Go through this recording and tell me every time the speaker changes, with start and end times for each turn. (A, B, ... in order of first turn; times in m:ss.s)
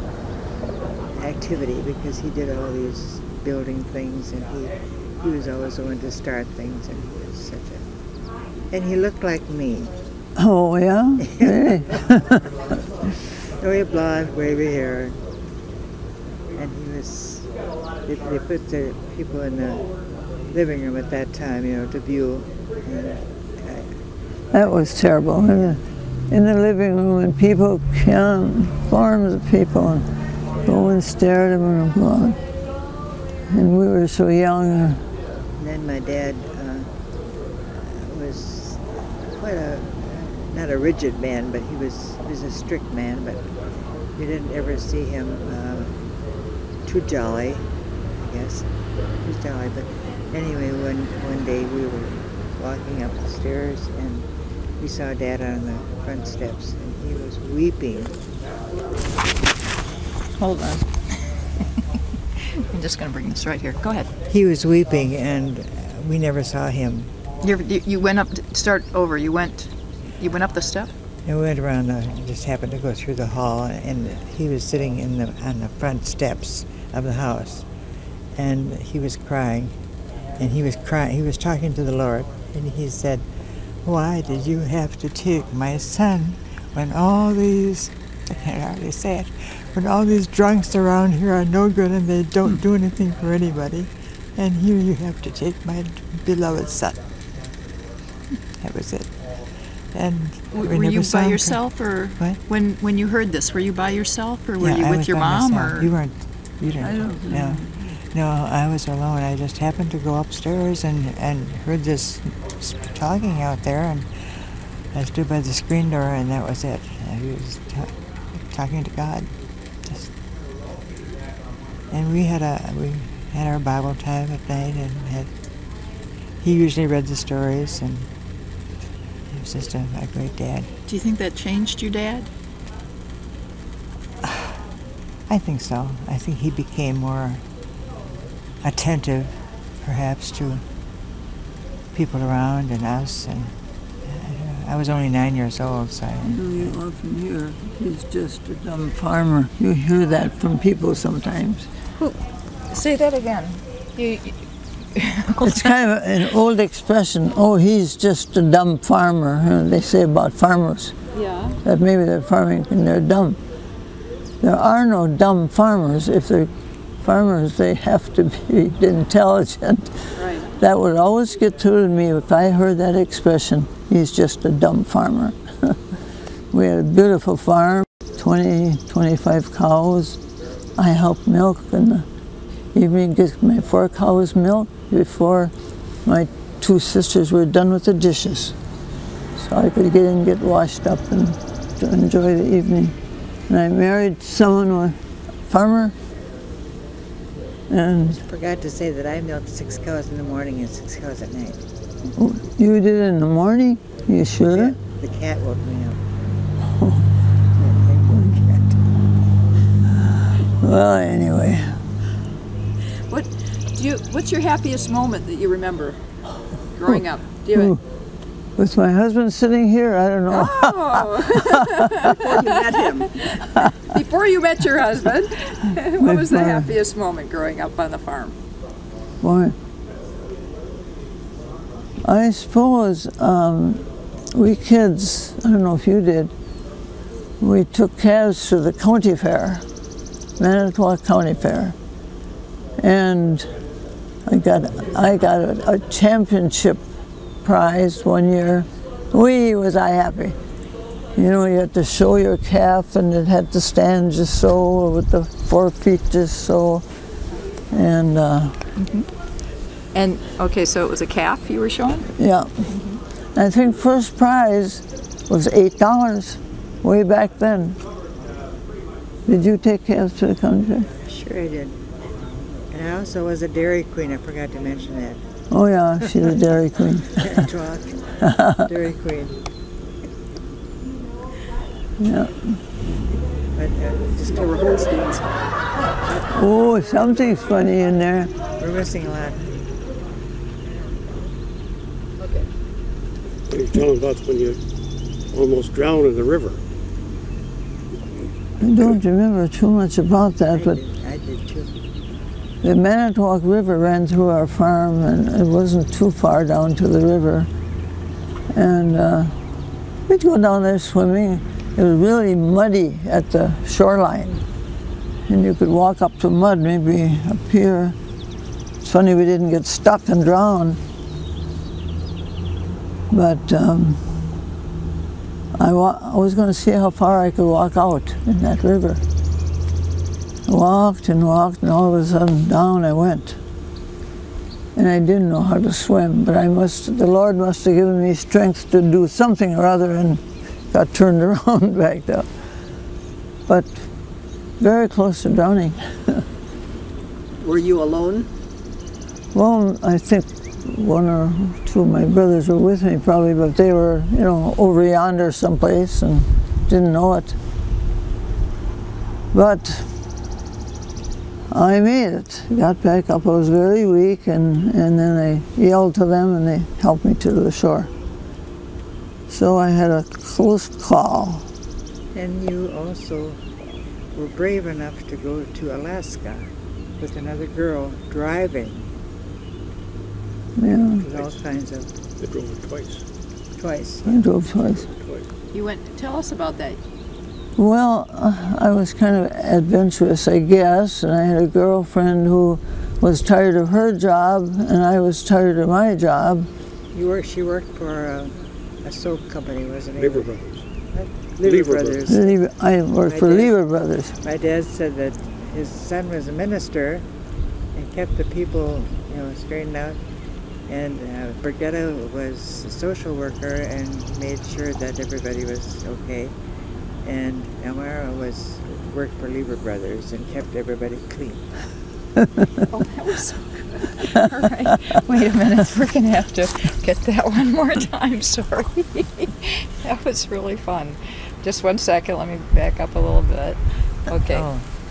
0:01.2-0:07.8 A
0:08.7-0:09.9 A
0:10.4-0:12.6 B
0:11.2-0:12.0 A
0:13.4-0:15.2 A
0:16.6-0:17.5 A
0:18.0-0:19.9 A
0:20.5-0:23.9 A
0:24.5-0:30.0 B
0:30.6-0:32.4 B
0:33.5-0:35.0 B
0:35.6-0:36.9 A
0:37.7-0:43.5 A
0:44.2-0:46.0 A
0:46.8-0:48.7 A
0:49.2-0:54.3 A
0:54.8-0:58.2 A
1:00.4-1:01.2 C
1:02.5-1:04.1 C
1:04.3-1:07.1 A
1:07.4-1:10.9 C
1:11.2-1:17.7 A
1:18.4-1:19.7 A
1:20.4-1:23.2 A
1:23.8-1:37.0 A
1:38.6-1:39.2 A
1:39.9-1:41.6 A
1:40.5-1:45.9 C
1:44.6-1:54.3 A
1:46.8-1:48.0 B
1:54.9-1:59.3 A
1:59.8-2:00.1 A
2:01.9-2:05.3 A
2:06.4-2:08.1 A
2:09.3-2:10.7 A
2:10.9-2:12.3 C
2:14.2-2:14.6 A
2:15.3-2:17.4 A
2:18.6-2:20.6 A
2:21.9-2:23.5 A
2:24.1-2:26.7 A
2:26.2-2:31.7 B
2:32.7-2:34.4 C
2:34.9-2:35.7 C
2:35.4-2:40.9 B
2:41.1-2:41.6 C
2:41.6-2:43.4 B
2:44.4-2:46.5 B
2:47.0-2:50.0 B
2:50.2-2:50.5 C
2:50.6-2:55.8 B
2:56.5-3:00.2 B
3:00.8-3:02.1 B
3:02.7-3:05.5 B
3:06.0-3:08.6 B
3:09.4-3:13.0 B
3:13.5-3:15.0 B
3:15.5-3:16.0 B
3:17.7-3:18.2 B
3:18.1-3:21.6 A
3:22.2-3:24.8 B
3:24.5-3:26.0 A
3:27.6-3:29.3 A
3:30.4-3:31.8 B
3:33.1-3:36.0 C
3:36.7-3:37.8 C
3:37.5-3:37.8 B
3:38.6-3:42.1 B
3:40.3-3:48.4 C
3:42.0-3:43.1 D
3:43.4-3:43.7 B
3:46.0-3:46.7 B
3:49.2-3:49.5 B
3:52.0-3:56.3 B
3:57.4-3:59.6 B
4:00.4-4:01.8 B
4:02.8-4:03.5 B
4:04.2-4:06.8 B
4:07.4-4:10.4 B
4:11.2-4:16.8 B
4:17.7-4:18.6 B
4:18.8-4:19.1 C
4:19.9-4:22.1 C
4:22.2-4:22.7 B
4:22.7-4:23.0 C
4:23.4-4:27.8 B
4:29.2-4:30.9 B
4:31.1-4:31.9 A
4:32.7-4:35.2 A
4:35.5-4:37.5 B
4:37.2-4:39.4 A
4:38.2-4:38.7 B
4:42.0-4:42.6 B
4:43.5-4:44.8 A
4:44.4-4:45.2 D
4:46.3-4:48.3 B
4:48.6-4:49.6 A
4:52.2-4:52.5 C
4:53.5-4:54.6 E
4:55.3-4:56.6 E
4:58.6-5:00.8 B
5:00.5-5:01.8 A
5:02.6-5:07.5 B
5:08.5-5:09.4 B
5:10.1-5:14.4 B
5:15.3-5:18.0 B
5:18.8-5:20.8 B
5:23.1-5:24.0 B
5:25.6-5:29.0 B
5:30.5-5:33.4 B
5:34.8-5:42.3 B
5:43.5-5:43.8 B
5:44.6-5:46.2 B
5:47.4-5:48.3 D
5:49.3-5:57.4 B
5:59.3-5:59.9 B
6:01.5-6:07.9 B
6:09.3-6:11.5 B
6:12.1-6:13.5 A
6:14.1-6:18.9 A
6:20.6-6:21.1 B
6:21.0-6:21.4 E
6:21.0-6:21.9 A
6:22.2-6:23.0 E
6:23.6-6:24.3 A
6:24.0-6:24.9 B
6:24.5-6:25.3 E
6:25.5-6:26.8 C
6:27.6-6:36.5 B
6:36.9-6:40.3 A
6:40.0-6:40.6 E
6:40.9-6:42.3 A
6:41.4-6:42.1 E
6:42.1-6:44.2 B
6:43.1-6:43.5 A
6:44.2-6:47.0 A
6:47.7-6:50.0 A
6:50.7-6:56.3 A
6:57.0-7:01.5 A
7:02.7-7:14.5 C
7:14.3-7:14.6 A